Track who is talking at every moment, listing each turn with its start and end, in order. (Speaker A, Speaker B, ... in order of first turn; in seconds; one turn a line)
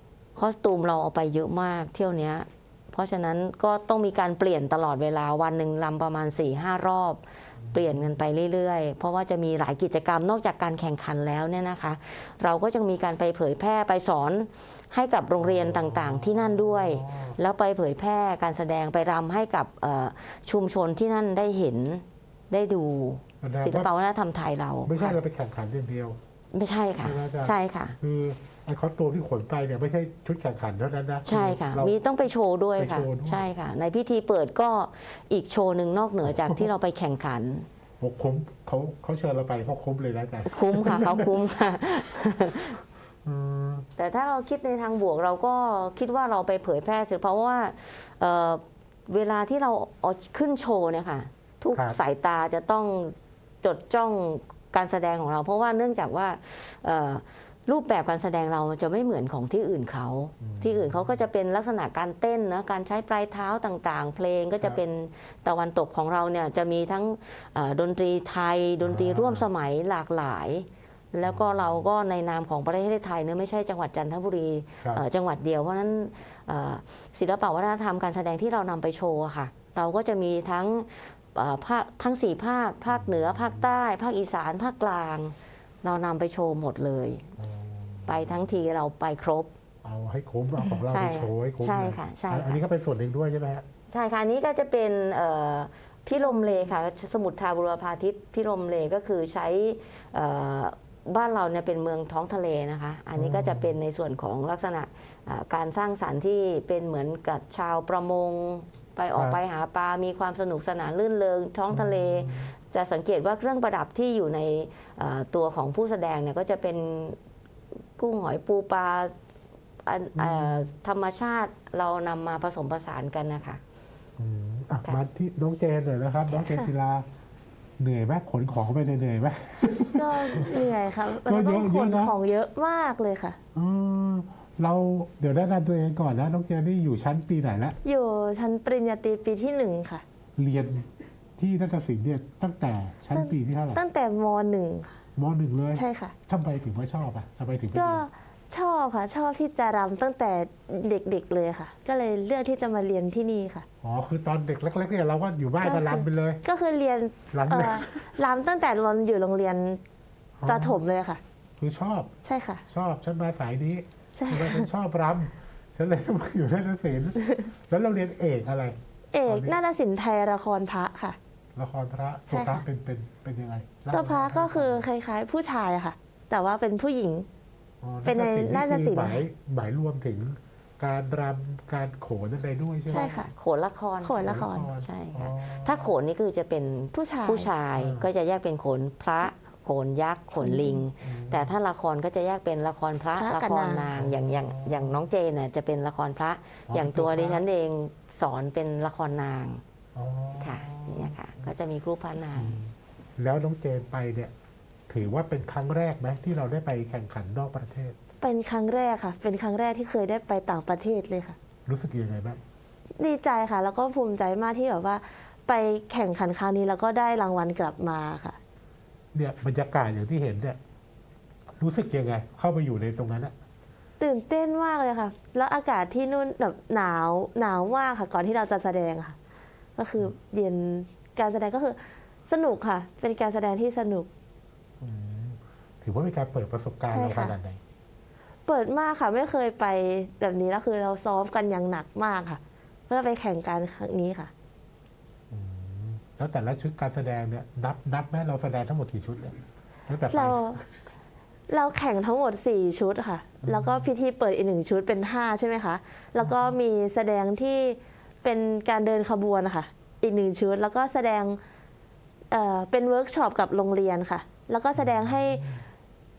Speaker A: 0.3-7.2
Speaker B: 7.6-8.0
Speaker A: 7.7-25.2
Speaker B: 15.4-17.4
Speaker B: 23.4-23.9
Speaker B: 24.8-26.2
Speaker A: 26.5-28.0
Speaker B: 27.0-31.9
Speaker A: 31.2-37.7
Speaker B: 32.8-33.5
Speaker B: 36.3-36.6
Speaker B: 38.0-41.3
Speaker A: 40.5-42.8
Speaker B: 43.2-43.9
Speaker A: 44.0-87.2
Speaker B: 60.4-61.2
Speaker B: 68.8-69.5
Speaker B: 71.2-71.9
Speaker B: 82.9-83.7
Speaker B: 87.4-88.5
Speaker A: 88.1-89.5
Speaker B: 89.8-93.7
Speaker A: 90.6-92.6
Speaker A: 93.9-117.2
Speaker B: 103.1-103.7
Speaker B: 109.1-109.4
Speaker B: 111.7-112.5
Speaker A: 118.0-119.1
Speaker A: 119.8-123.6
Speaker B: 120.2-120.6
Speaker B: 124.2-127.1
Speaker B: 127.8-130.7
Speaker C: 129.9-133.4
Speaker B: 131.2-132.1
Speaker B: 133.5-137.8
Speaker C: 137.8-140.0
Speaker B: 140.4-143.8
Speaker C: 143.1-145.0
Speaker B: 145.2-148.0
Speaker C: 145.7-146.1
Speaker C: 147.7-153.7
Speaker B: 153.8-156.4
Speaker C: 155.6-159.8
Speaker B: 157.3-158.1
Speaker B: 160.4-160.8
Speaker C: 160.4-161.2
Speaker B: 161.6-162.1
Speaker C: 162.2-162.6
Speaker B: 162.7-169.6
Speaker C: 164.2-164.7
Speaker C: 169.1-171.2
Speaker B: 171.6-174.9
Speaker C: 172.3-172.6
Speaker C: 173.9-177.3
Speaker B: 177.8-183.1
Speaker C: 178.0-179.2
Speaker A: 182.9-199.6
Speaker C: 182.9-183.3
Speaker C: 184.0-184.7
Speaker B: 184.2-185.9
Speaker C: 186.9-187.5
Speaker B: 187.8-188.1
Speaker C: 190.4-190.8
Speaker B: 191.0-191.5
Speaker C: 193.2-193.9
Speaker B: 193.9-195.0
Speaker B: 196.7-197.4
Speaker B: 199.9-201.5
Speaker A: 200.4-202.6
Speaker B: 202.3-204.3
Speaker B: 204.9-208.0
Speaker C: 208.2-211.3
Speaker B: 211.7-212.4
Speaker C: 213.0-218.4
Speaker B: 219.1-220.6
Speaker B: 221.6-223.3
Speaker C: 224.0-229.1
Speaker C: 229.8-234.1
Speaker B: 234.8-237.6
Speaker C: 236.9-237.3
Speaker C: 238.4-244.3
Speaker B: 245.3-250.6
Speaker C: 250.1-250.6
Speaker C: 251.5-261.4
Speaker B: 253.4-253.9
Speaker B: 256.2-256.6
Speaker C: 262.3-265.4
Speaker B: 264.7-265.6